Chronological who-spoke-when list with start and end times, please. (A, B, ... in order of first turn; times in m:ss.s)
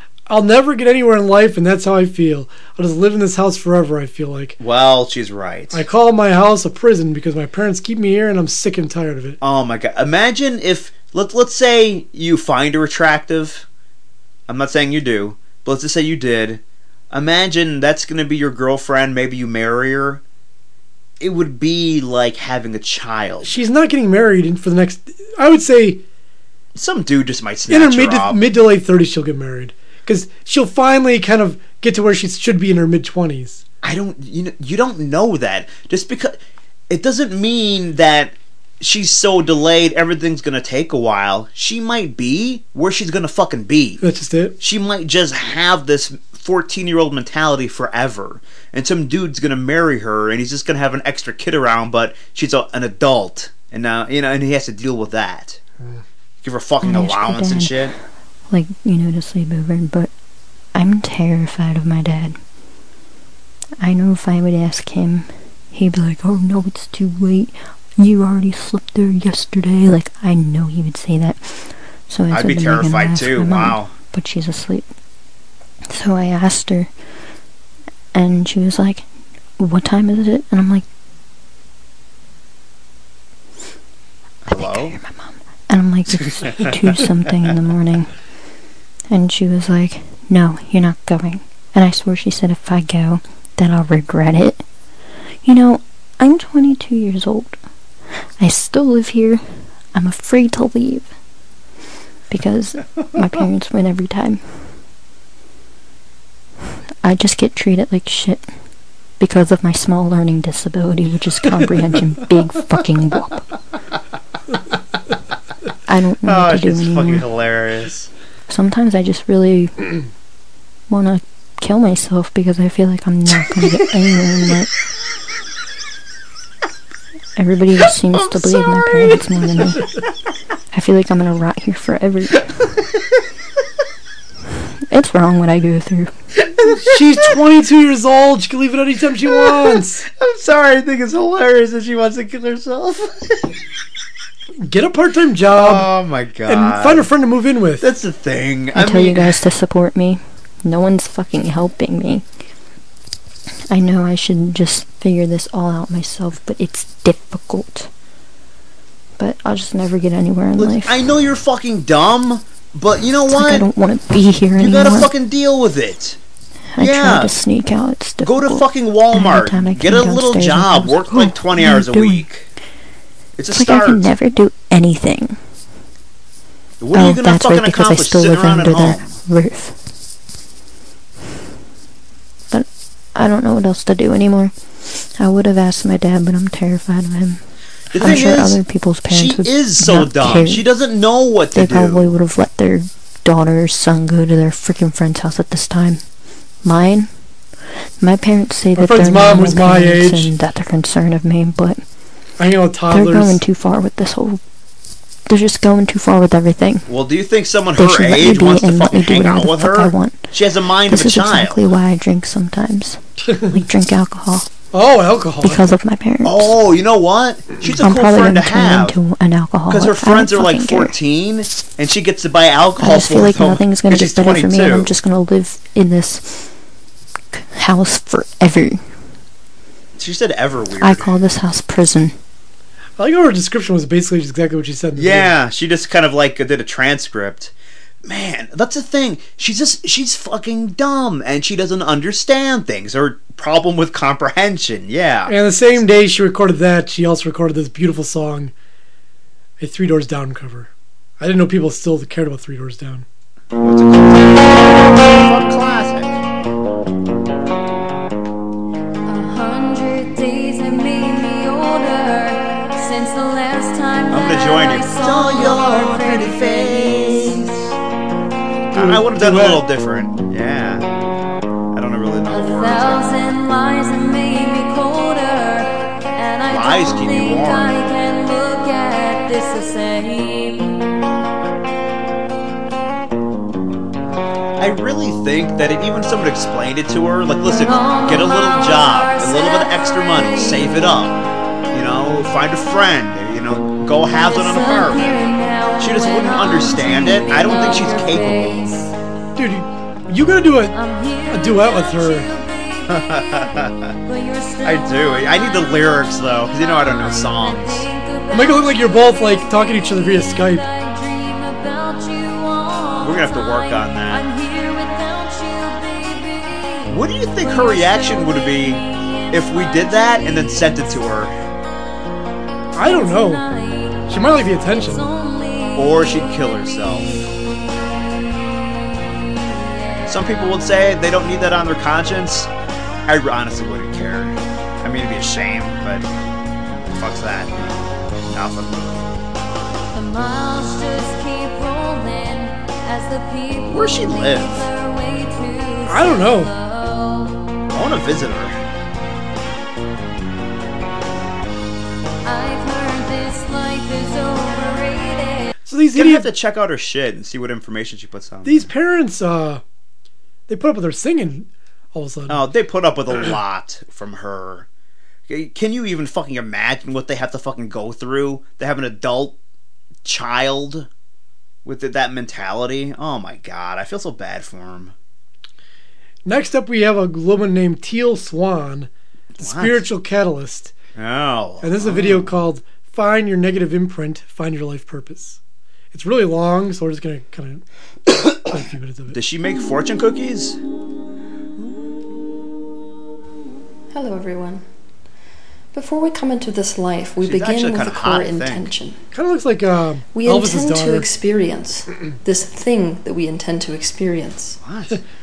0:00.3-0:04.6 A
0:04.6-0:05.8 B
0:05.7-0:09.4 A
0:09.4-0:13.6 B
0:14.5-0:20.2 B
0:21.2-0:23.6 B
0:23.4-0:26.0 A
0:26.7-0:28.4 B
0:27.7-0:33.6 A
0:33.8-0:36.4 B
0:36.9-0:44.0 B
0:44.0-0:44.6 A
0:44.6-0:55.6 B
0:56.4-0:57.9 B
0:56.8-0:57.9 C
0:58.5-1:00.1 C
1:00.7-1:02.4 C
1:03.8-1:14.9 C
1:12.3-1:13.9 B
1:15.9-1:16.9 C
1:18.1-1:19.1 C
1:19.6-1:20.9 C
1:24.4-1:25.0 B
1:24.4-1:28.1 C
1:29.1-1:34.6 C
1:35.4-1:37.6 C
1:38.4-1:41.1 C
1:42.3-1:44.4 C
1:47.0-1:48.4 C
1:49.2-1:53.4 C
1:55.9-1:57.3 C
1:56.2-1:58.1 B
1:58.5-1:59.9 C
2:00.9-2:04.7 C
2:07.4-2:09.9 C
2:08.1-2:09.6 B
2:10.7-2:12.5 C
2:14.9-2:16.1 C
2:16.6-2:17.0 B
2:16.7-2:20.0 A
2:19.2-2:23.5 B
2:24.6-2:25.9 A
2:25.5-2:27.1 B
2:26.5-2:27.9 A
2:27.8-2:29.4 B
2:28.7-2:32.2 C
2:33.7-2:37.9 C
2:39.2-2:41.0 C
2:40.6-2:43.7 B
2:43.3-2:45.1 C
2:44.5-2:46.2 B
2:46.7-2:52.2 C
2:46.8-2:47.3 B
2:48.2-2:52.5 B
2:53.4-2:54.1 B
2:53.5-2:55.4 C
2:56.8-2:59.2 B
2:56.9-2:59.8 C
3:02.5-3:07.4 C
3:07.9-3:12.1 B
3:08.0-3:10.7 C
3:11.5-3:16.0 C
3:16.6-3:17.1 C
3:18.0-3:21.8 C
3:18.8-3:20.3 A
3:22.4-3:23.4 A
3:22.9-3:24.4 C
3:25.3-3:26.9 C
3:26.9-3:31.7 B
3:27.7-3:30.3 C
3:30.9-3:34.5 C
3:34.7-3:35.6 A
3:35.4-3:36.6 C
3:36.2-3:39.0 B
3:37.8-3:40.9 C
3:39.7-3:44.9 B
3:42.8-3:46.5 C
3:47.3-3:48.8 C
3:50.0-3:51.1 B
3:50.8-3:52.2 C
3:53.0-3:55.3 A
3:55.0-3:57.5 B
3:58.0-4:05.8 B
4:05.3-4:08.5 A
4:09.6-4:13.1 A
4:13.6-4:16.2 B
4:19.1-4:27.6 D
4:24.1-4:27.6 B
4:28.7-4:29.6 A
4:28.7-4:30.9 B
4:31.7-4:33.1 B
4:32.3-4:40.8 D
4:36.5-4:37.7 B
4:44.6-4:51.2 B
4:47.4-4:50.8 D
4:51.7-4:55.2 B
4:54.2-4:58.9 D
4:55.8-4:58.8 B
4:59.4-5:00.7 A
5:00.7-5:06.0 D
5:01.3-5:02.3 A
5:02.9-5:04.0 B
5:04.6-5:07.9 B
5:06.6-5:21.0 D
5:08.3-5:10.6 A
5:13.0-5:14.2 B
5:16.9-5:21.4 B
5:22.7-5:23.4 A
5:22.8-5:27.2 D
5:24.1-5:25.1 A
5:25.8-5:27.3 B
5:29.1-5:30.1 D
5:30.1-5:32.5 B
5:33.1-5:36.1 B
5:36.8-5:39.1 B
5:39.9-5:47.6 D
5:43.6-5:44.7 B
5:45.9-5:46.5 A
5:47.7-5:48.6 B
5:52.2-5:55.6 D
5:55.6-5:56.3 A
5:55.9-5:58.7 B
5:58.4-5:59.6 A
6:00.5-6:02.4 A
6:02.3-6:04.7 B
6:05.3-6:09.4 B
6:10.0-6:10.9 B
6:11.6-6:14.9 B
6:16.2-6:18.9 A
6:19.4-6:19.8 B
6:19.4-6:20.7 A
6:21.0-6:22.4 B
6:21.6-6:25.4 A
6:25.9-6:27.6 A
6:28.4-6:29.2 A
6:29.1-6:30.6 B
6:33.9-6:34.6 E
6:35.7-6:39.0 E
6:37.2-6:38.7 B
6:39.1-6:41.1 A
6:40.1-6:44.6 E
6:44.6-6:45.0 B